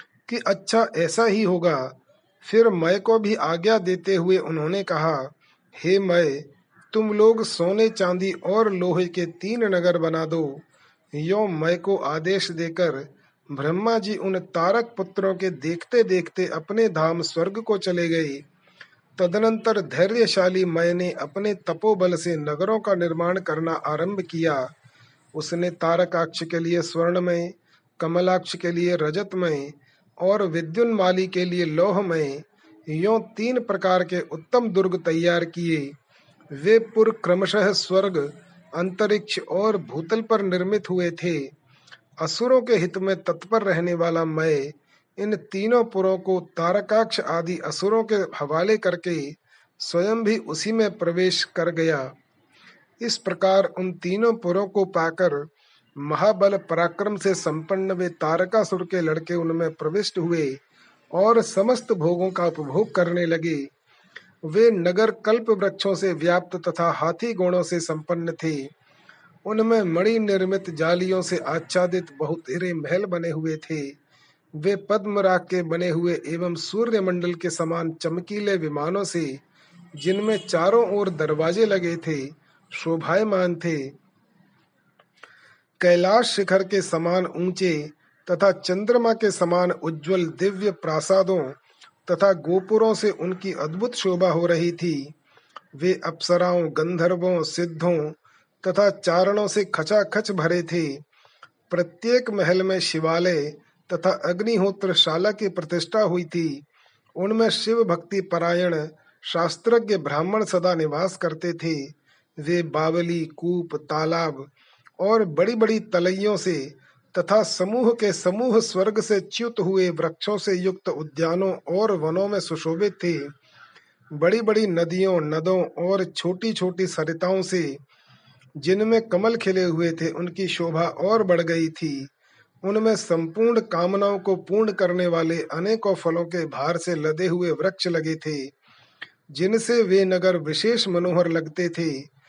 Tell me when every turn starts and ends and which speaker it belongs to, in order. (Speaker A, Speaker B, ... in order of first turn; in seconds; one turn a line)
Speaker A: 0.3-10.6
Speaker A: 11.1-18.4
Speaker A: 19.2-24.7
Speaker A: 25.3-35.9
Speaker A: 36.5-41.5
Speaker A: 42.2-52.1
Speaker A: 53.0-60.6
Speaker A: 61.1-63.7
Speaker A: 64.4-68.7
Speaker A: 69.5-74.0
Speaker A: 74.5-79.4
Speaker A: 80.0-83.9
Speaker A: 85.8-95.1
Speaker A: 95.8-101.0
Speaker A: 101.7-106.6
Speaker A: 107.2-123.3
Speaker A: 124.1-127.8
Speaker A: 128.6-132.1
Speaker A: 132.6-138.5
Speaker A: 139.3-142.1